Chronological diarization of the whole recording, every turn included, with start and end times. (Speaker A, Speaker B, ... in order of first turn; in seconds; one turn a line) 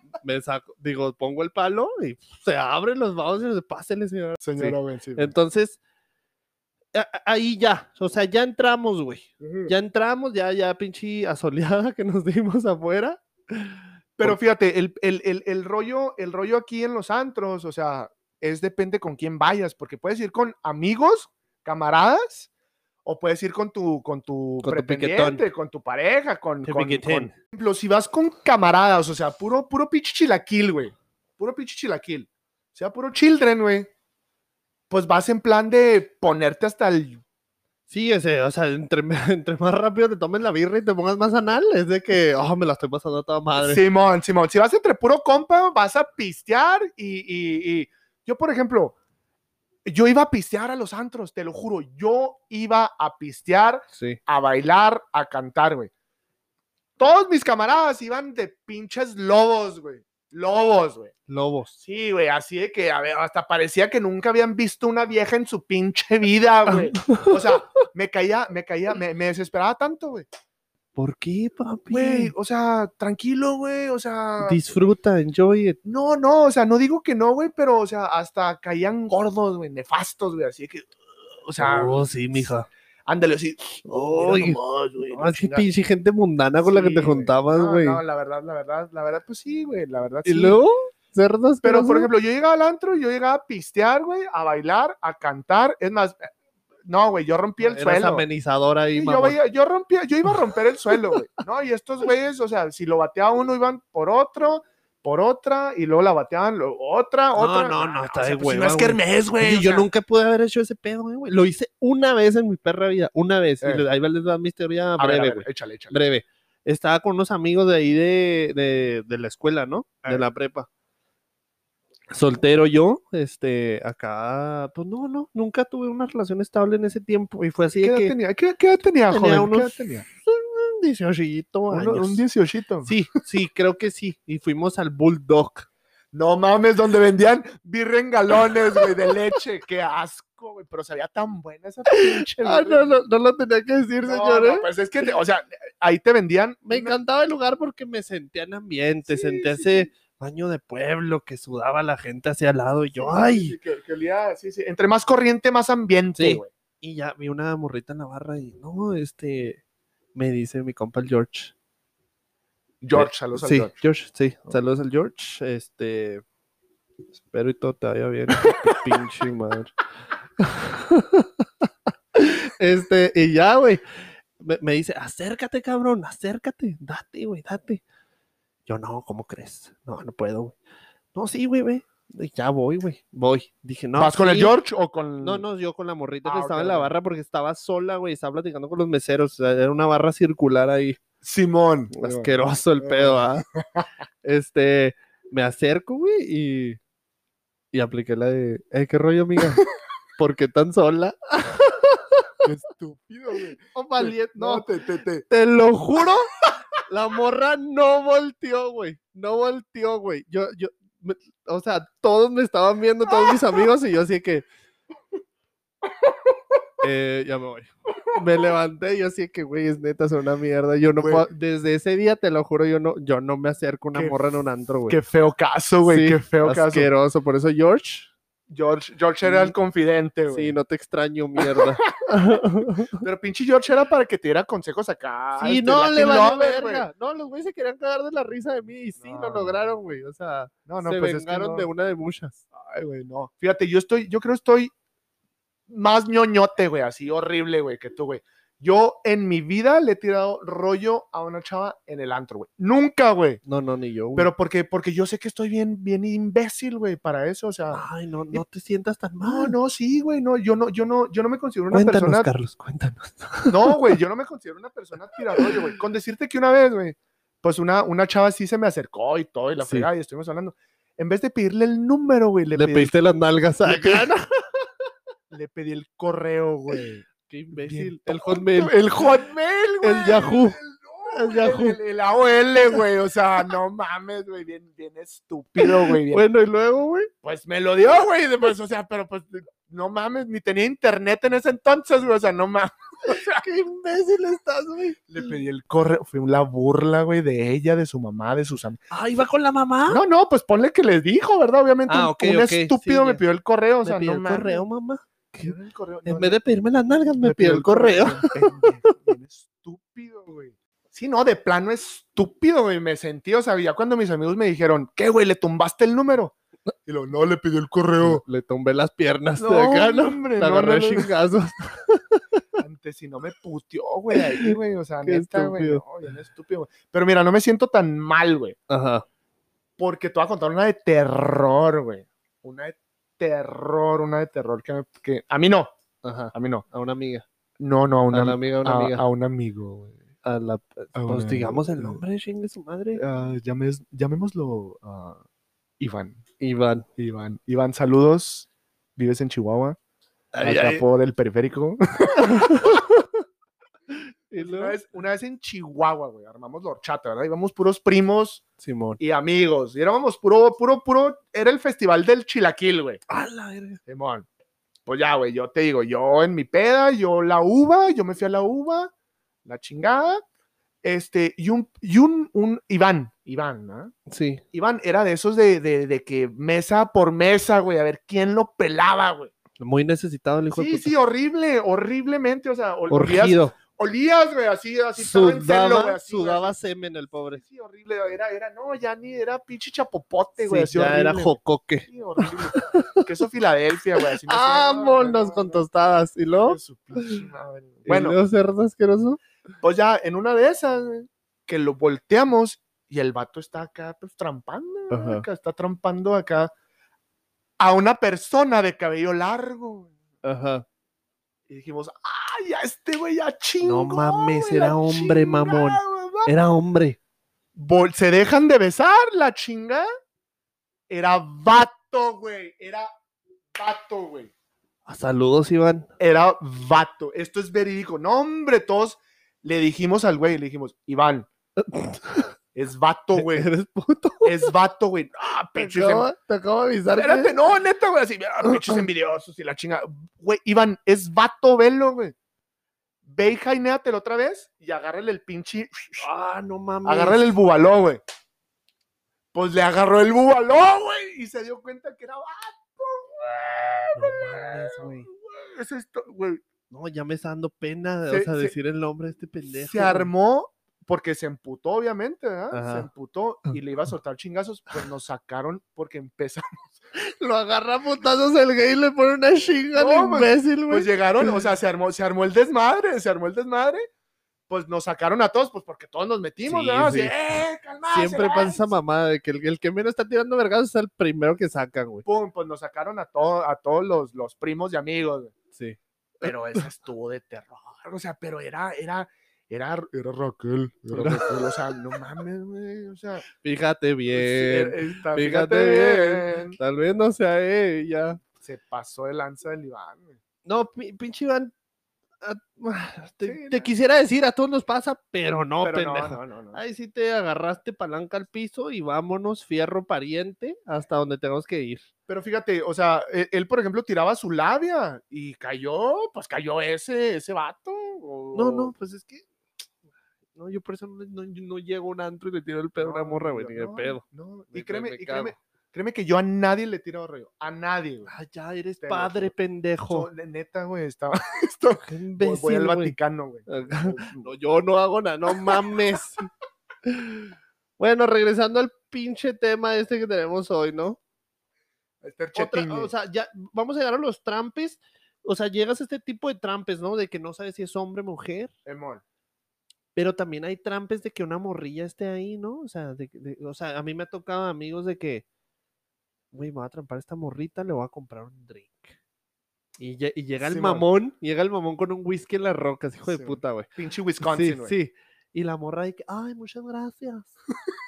Speaker A: 0.2-5.8
Speaker B: 4.4-5.3
Speaker A: 6.9-14.3
Speaker B: 9.4-9.7
Speaker B: 14.2-22.5
Speaker B: 23.0-33.9
Speaker A: 24.6-25.4
Speaker A: 26.6-27.3
Speaker B: 34.9-37.2
Speaker A: 37.9-43.8
Speaker B: 43.6-49.0
Speaker B: 49.8-55.9
Speaker A: 53.9-54.2
Speaker B: 57.0-61.1
Speaker A: 61.3-61.7
Speaker B: 61.8-70.2
Speaker A: 66.7-67.8
Speaker A: 71.0-72.3
Speaker B: 71.9-74.6
Speaker A: 74.4-75.8
Speaker B: 75.8-82.5
Speaker A: 81.6-82.7
Speaker B: 83.1-85.7
Speaker A: 83.8-88.0
Speaker B: 86.6-90.6
Speaker A: 90.2-92.1
Speaker B: 91.6-96.3
Speaker B: 96.8-98.2
Speaker A: 97.6-99.4
Speaker B: 98.9-109.9
Speaker A: 100.3-101.2
Speaker A: 107.3-120.7
Speaker B: 115.0-116.0
Speaker A: 122.1-128.1
Speaker B: 127.8-130.0
Speaker A: 129.1-132.2
Speaker B: 131.7-132.9
Speaker A: 132.8-135.7
Speaker B: 136.1-142.9
Speaker A: 141.9-144.7
Speaker B: 144.0-147.0
Speaker A: 146.7-153.6
Speaker B: 149.0-149.9
Speaker B: 152.9-156.5
Speaker A: 156.2-159.6
Speaker A: 160.1-161.5
Speaker B: 162.8-163.7
Speaker A: 162.9-166.2
Speaker A: 167.3-169.7
Speaker B: 168.3-168.9
Speaker A: 170.4-173.8
Speaker A: 174.4-177.8
Speaker A: 178.7-180.6
Speaker A: 181.1-184.5
Speaker B: 184.0-185.4
Speaker A: 185.2-191.0
Speaker B: 186.2-186.9
Speaker B: 191.2-193.9
Speaker A: 191.9-193.4
Speaker A: 194.2-196.8
Speaker A: 197.7-199.6
Speaker B: 199.4-199.6
Speaker A: 200.2-202.4
Speaker B: 202.4-205.2
Speaker A: 203.7-204.7
Speaker A: 205.2-206.3
Speaker A: 206.9-214.4
Speaker B: 213.1-213.7
Speaker A: 216.8-225.0
Speaker B: 221.0-221.2
Speaker B: 224.9-226.9
Speaker A: 225.8-228.1
Speaker B: 228.5-230.6
Speaker A: 229.2-229.5
Speaker A: 230.3-233.0
Speaker B: 231.4-232.4
Speaker B: 233.0-236.8
Speaker A: 235.4-242.4
Speaker B: 239.0-239.8
Speaker B: 240.7-241.7
Speaker B: 242.5-244.7
Speaker B: 245.7-253.4
Speaker A: 253.4-254.3
Speaker B: 254.2-258.4
Speaker A: 257.7-259.5
Speaker B: 259.2-262.3
Speaker A: 261.7-264.0
Speaker B: 263.5-272.9
Speaker A: 269.6-269.9
Speaker A: 272.5-274.7
Speaker B: 273.6-274.1
Speaker B: 275.3-286.2
Speaker A: 277.2-279.0
Speaker A: 279.8-281.8
Speaker A: 285.6-287.1
Speaker B: 287.2-293.4
Speaker A: 293.1-295.0
Speaker B: 295.1-298.8
Speaker A: 298.9-300.0
Speaker B: 299.9-304.6
Speaker A: 301.9-303.2
Speaker A: 303.8-308.4
Speaker B: 305.4-306.4
Speaker B: 307.2-316.3
Speaker B: 316.9-318.2
Speaker A: 318.0-322.2
Speaker B: 319.4-321.1
Speaker B: 322.6-328.6
Speaker A: 324.1-325.8
Speaker A: 328.7-329.0
Speaker B: 329.8-335.7
Speaker A: 336.0-337.2
Speaker B: 336.3-336.6
Speaker B: 337.6-340.0
Speaker A: 338.1-339.0
Speaker A: 340.2-343.0
Speaker B: 340.9-342.0
Speaker B: 342.9-345.2
Speaker B: 345.8-346.2
Speaker A: 346.4-346.9
Speaker B: 347.0-349.8
Speaker A: 350.3-350.8
Speaker B: 350.4-352.8
Speaker A: 352.1-353.2
Speaker A: 353.9-354.8
Speaker B: 354.4-358.4
Speaker A: 358.6-359.0
Speaker B: 359.0-363.0
Speaker A: 363.1-363.8
Speaker B: 363.9-364.2
Speaker B: 364.9-368.9
Speaker B: 369.4-370.2
Speaker B: 370.8-373.9
Speaker A: 374.1-374.4
Speaker B: 374.5-379.3
Speaker A: 379.6-380.9
Speaker B: 380.5-386.5
Speaker A: 382.9-383.6
Speaker A: 384.9-387.4
Speaker B: 387.2-395.6
Speaker A: 390.4-393.1
Speaker A: 394.2-397.2
Speaker B: 396.4-398.2
Speaker A: 397.9-399.2
Speaker B: 399.6-406.5
Speaker A: 404.9-405.2
Speaker B: 407.6-409.9
Speaker A: 410.2-410.6
Speaker B: 411.5-416.3
Speaker A: 413.6-417.0
Speaker B: 417.5-419.9
Speaker B: 420.9-422.9
Speaker B: 423.5-424.3
Speaker A: 424.9-425.9
Speaker B: 426.0-431.3
Speaker A: 431.6-432.3
Speaker B: 432.5-433.5
Speaker A: 433.1-434.5
Speaker B: 434.2-436.1
Speaker A: 435.6-437.3
Speaker B: 436.9-442.1
Speaker A: 438.5-438.8
Speaker B: 443.0-446.0
Speaker A: 446.0-447.3
Speaker B: 446.8-448.0
Speaker B: 449.3-456.4
Speaker A: 453.9-455.1
Speaker A: 456.7-460.1
Speaker B: 458.1-458.5
Speaker B: 459.5-466.7
Speaker A: 462.5-462.9
Speaker A: 466.9-471.4
Speaker B: 469.7-473.8
Speaker B: 474.5-478.7
Speaker A: 476.4-477.1
Speaker A: 477.9-482.0
Speaker B: 482.0-485.3
Speaker A: 485.5-486.7
Speaker B: 486.2-493.2
Speaker A: 490.9-491.8
Speaker A: 493.3-498.2
Speaker B: 494.1-496.6
Speaker B: 498.4-500.2
Speaker A: 500.4-501.5
Speaker A: 502.2-511.9
Speaker B: 503.2-503.7
Speaker B: 505.6-506.6
Speaker B: 512.1-518.7
Speaker A: 518.3-519.2
Speaker A: 520.4-525.3
Speaker B: 522.8-528.1
Speaker A: 528.1-530.1
Speaker B: 528.8-529.3
Speaker B: 529.9-534.3
Speaker A: 531.8-536.3
Speaker B: 535.3-535.6
Speaker A: 536.8-541.0
Speaker B: 542.0-542.9
Speaker A: 542.3-548.5
Speaker B: 548.6-549.0
Speaker A: 549.9-555.2
Speaker A: 556.3-558.9
Speaker A: 559.8-567.3
Speaker B: 560.4-560.9
Speaker B: 563.0-564.8